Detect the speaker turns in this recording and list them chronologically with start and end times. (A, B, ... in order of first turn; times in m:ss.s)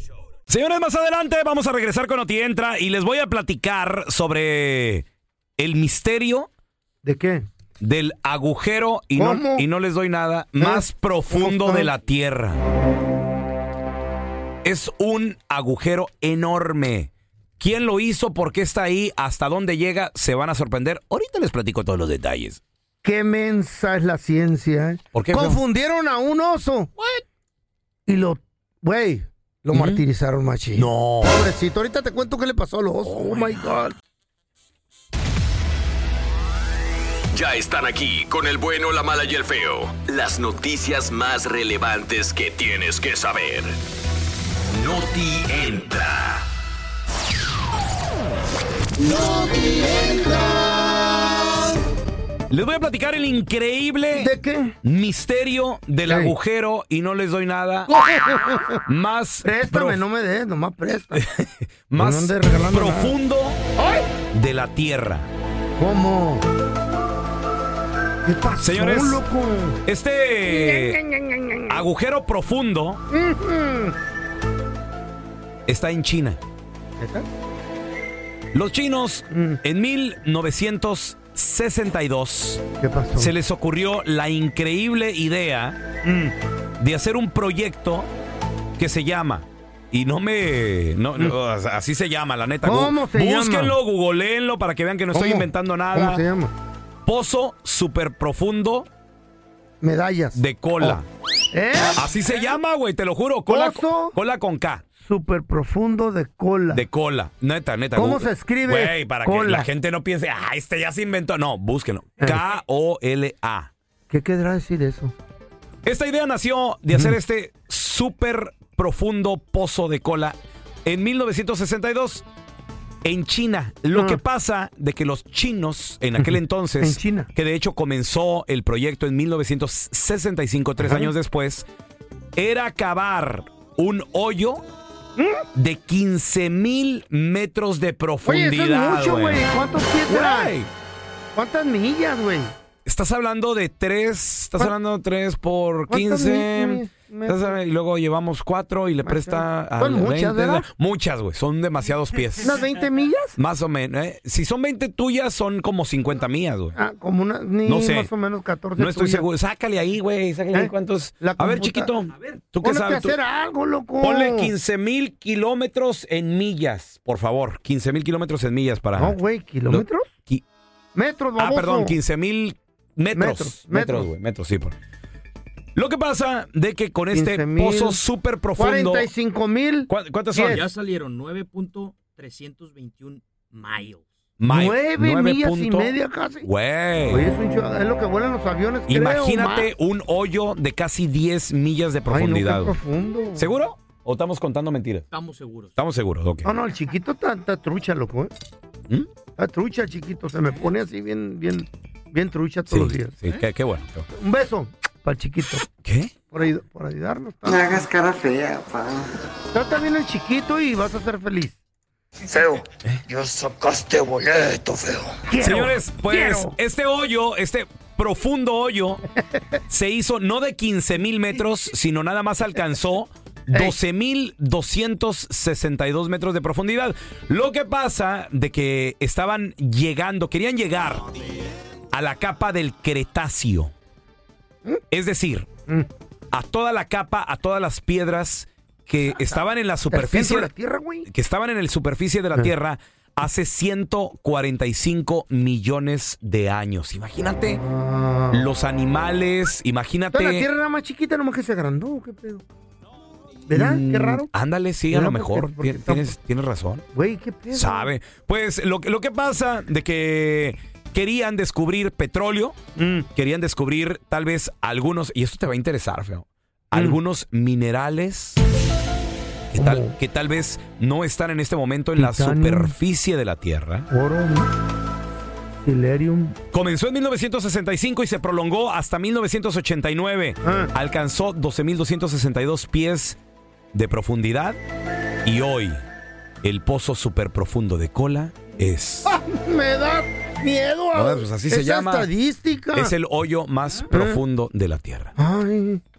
0:00.5-0:05.0 A
0:05.6-0:06.5 A
0:07.0-0:07.5 B
0:07.8-0:12.6 A
0:09.2-0:09.6 B
0:10.6-0:11.9 B
0:14.6-0:22.6 A
0:23.0-0:26.9 B
0:25.1-0:25.6 A
0:28.0-0:34.0 B
0:29.7-0:30.0 A
0:30.8-0:31.4 A
0:33.0-0:33.7 A
0:37.3-0:43.8 C
0:44.7-0:46.4 C
0:49.0-0:50.6 B
0:52.5-0:54.3 A
0:54.1-0:54.8 B
0:54.8-0:57.9 A
0:56.0-0:56.3 B
0:57.9-0:58.8 B
0:58.8-1:00.0 A
0:59.4-1:01.2 B
1:01.1-1:03.6 A
1:02.0-1:03.2 B
1:03.8-1:04.1 B
1:04.3-1:05.3 A
1:05.8-1:06.5 B
1:08.2-1:09.8 B
1:08.6-1:09.2 A
1:09.8-1:11.0 A
1:10.4-1:11.9 B
1:11.7-1:13.0 A
1:13.1-1:14.0 B
1:15.7-1:16.4 A
1:17.0-1:17.3 B
1:18.5-1:22.6 A
1:19.3-1:19.6 B
1:22.8-1:23.3 B
1:23.2-1:25.8 A
1:26.0-1:26.3 B
1:26.8-1:28.1 A
1:28.8-1:36.2 A
1:32.6-1:33.8 B
1:35.1-1:36.5 B
1:37.0-1:38.9 A
1:39.8-1:41.0 B
1:40.3-1:41.0 A
1:41.5-1:42.0 B
1:42.0-1:44.8 A
1:43.5-1:44.2 B
1:45.0-1:46.8 B
1:46.7-1:53.7 A
1:47.9-1:49.7 B
1:54.1-1:55.1 B
1:55.8-2:02.2 A
2:03.0-2:11.7 A
2:03.9-2:04.2 B
2:06.2-2:07.3 B
2:10.8-2:11.1 B
2:12.4-2:14.6 A
2:15.2-2:15.4 B
2:15.5-2:19.4 A
2:18.2-2:20.5 B
2:20.1-2:20.7 A
2:21.3-2:22.5 B
2:22.8-2:32.6 A
2:25.9-2:27.6 B
2:29.0-2:30.7 B
2:32.4-2:33.4 B
2:33.4-2:36.8 A
2:36.8-2:39.2 B
2:37.6-2:38.1 A
2:38.8-2:43.2 A
2:40.5-2:41.9 B
2:42.6-2:44.5 B
2:44.0-2:49.2 A
2:49.0-2:50.1 B
2:49.7-2:50.4 A
2:50.9-2:52.0 B
2:51.4-2:54.8 A
2:53.1-2:54.1 B
2:55.8-2:59.1 A
2:57.1-2:58.0 B
2:58.6-3:00.7 B
2:59.9-3:00.7 A
3:00.4-3:04.0 D
3:04.4-3:07.3 A
3:04.5-3:06.5 B
3:07.0-3:09.7 B
3:08.9-3:12.7 A
3:12.1-3:13.5 B
3:13.4-3:15.1 A
3:15.1-3:15.7 D
3:15.7-3:16.5 A
3:16.4-3:18.3 B
3:19.4-3:23.4 B
3:22.7-3:24.1 A
3:24.1-3:25.6 B
3:25.8-3:26.1 A
3:26.3-3:27.8 B
3:27.4-3:29.1 E
3:29.5-3:31.6 B
3:32.2-3:35.2 E
3:35.2-3:36.6 B
3:35.4-3:39.0 A
3:39.7-3:51.0 A
3:51.9-3:53.7 A
3:54.9-3:55.5 A
3:56.3-4:00.5 A
3:59.1-4:01.1 B
4:01.1-4:07.6 A
4:07.6-4:08.5 B
4:08.3-4:10.5 A
4:10.1-4:12.4 B
4:13.5-4:14.3 B
4:13.5-4:16.8 A
4:14.9-4:16.1 B
4:16.9-4:17.9 B
4:17.5-4:22.6 A
4:22.8-4:23.1 B
4:23.2-4:28.4 A
4:26.7-4:27.0 B
4:29.5-4:33.9 A
4:29.6-4:30.0 B
4:32.0-4:32.8 B
4:33.9-4:34.5 B
4:35.6-4:36.4 B
4:36.5-4:43.2 A
4:40.4-4:40.7 B
4:43.7-4:44.6 A
4:45.2-4:45.8 A
4:46.4-4:49.2 A
4:49.0-4:52.9 B
4:50.9-4:52.1 A
4:52.7-4:55.1 A
4:53.9-4:54.2 B
4:55.2-4:55.8 B